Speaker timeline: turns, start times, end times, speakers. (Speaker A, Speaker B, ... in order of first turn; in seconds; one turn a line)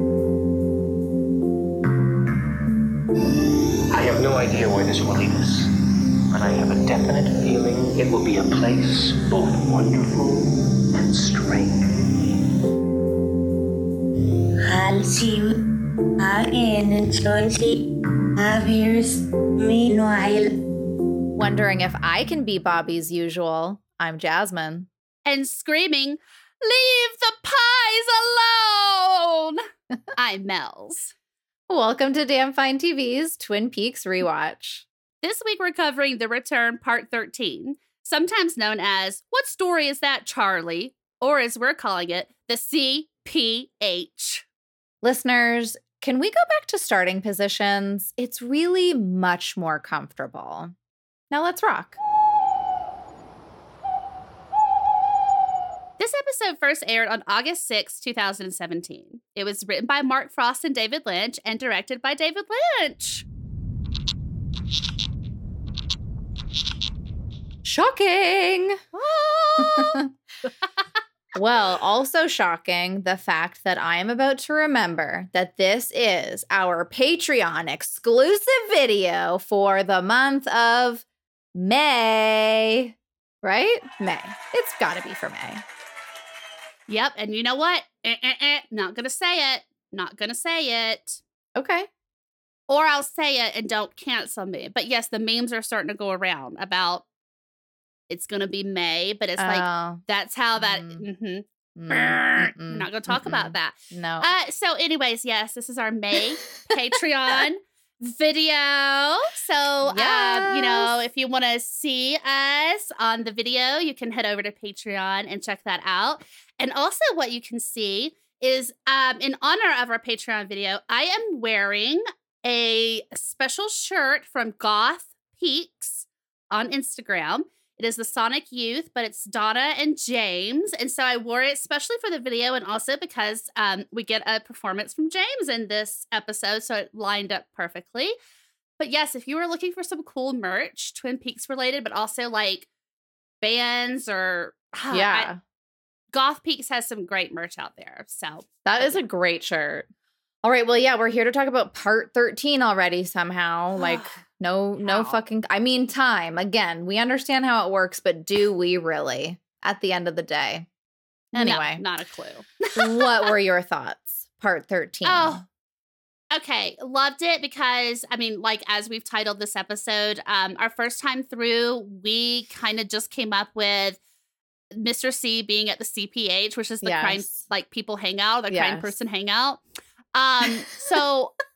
Speaker A: 3.9-5.7
Speaker A: 6.3-11.8
Speaker B: 14.7-15.6
Speaker B: 16.2-17.8
Speaker B: 18.4-20.6
Speaker C: 21.3-24.9
Speaker D: 25.2-29.6
Speaker D: 30.1-31.1
Speaker C: 31.7-34.8
Speaker D: 35.2-44.4
Speaker C: 45.0-50.7
Speaker C: 51.3-52.0
Speaker D: 56.0-63.2
Speaker C: 67.6-68.8
Speaker D: 68.9-70.0
Speaker C: 69.6-70.1
Speaker C: 71.3-85.6
Speaker D: 86.9-91.2
Speaker C: 91.5-91.9
Speaker D: 92.7-97.0
Speaker D: 98.1-138.1
Speaker C: 99.4-100.0
Speaker C: 100.6-101.0
Speaker C: 101.8-104.3
Speaker C: 109.8-110.9
Speaker D: 138.8-142.7
Speaker D: 143.4-145.3
Speaker C: 144.9-145.4
Speaker D: 146.1-149.0
Speaker C: 148.6-149.9
Speaker C: 150.4-160.7
Speaker D: 153.8-154.2
Speaker D: 154.8-155.2
Speaker C: 161.3-161.8
Speaker D: 161.3-163.3
Speaker C: 162.8-165.4
Speaker D: 165.0-165.4
Speaker D: 166.3-174.0
Speaker D: 174.7-179.6
Speaker C: 176.8-177.3
Speaker C: 178.5-178.9
Speaker D: 180.1-181.3